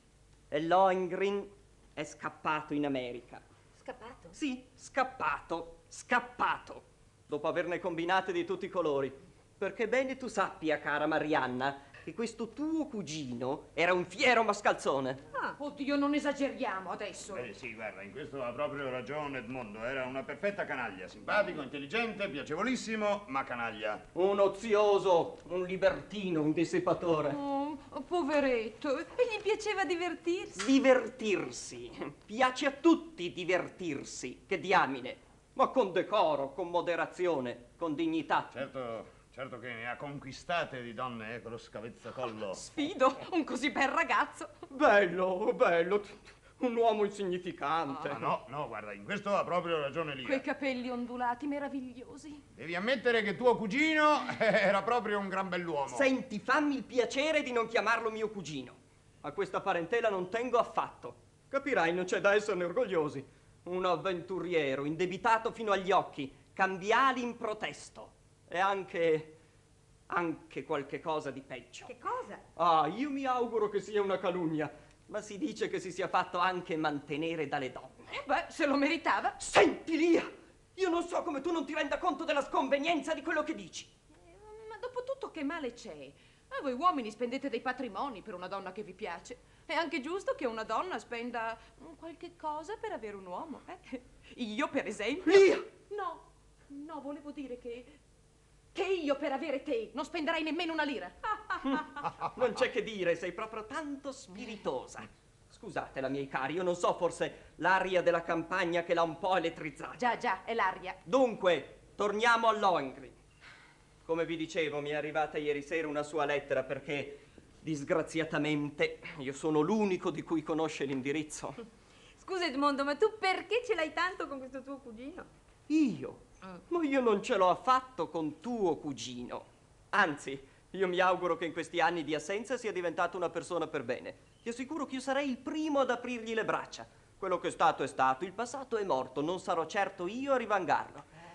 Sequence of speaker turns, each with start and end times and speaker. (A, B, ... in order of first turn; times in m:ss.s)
0:00.5-0:03.4 A
0:03.8-0:04.4 B
0:04.3-0:15.2 A
0:15.6-0:17.5 C
0:17.3-0:24.0 D
0:24.1-0:27.4 A
0:27.3-0:30.6 C
0:30.5-0:38.6 A
0:38.5-0:42.6 D
0:42.5-0:44.6 C
0:44.7-0:48.2 A
0:47.9-0:48.2 C
0:48.1-0:50.4 D
0:50.2-0:52.4 C
0:52.6-0:56.1 D
0:55.8-1:09.3 A
1:10.1-1:11.9 A
1:11.8-1:12.4 B
1:12.6-1:18.2 A
1:18.1-1:19.4 C
1:19.4-1:23.9 A
1:24.2-1:38.0 C
1:35.3-1:35.6 A
1:38.7-1:41.4 C
1:41.6-1:50.0 A
1:50.0-1:51.0 C
1:51.0-1:53.2 A
1:54.0-2:01.6 A
2:02.2-2:05.3 B
2:05.7-2:21.1 A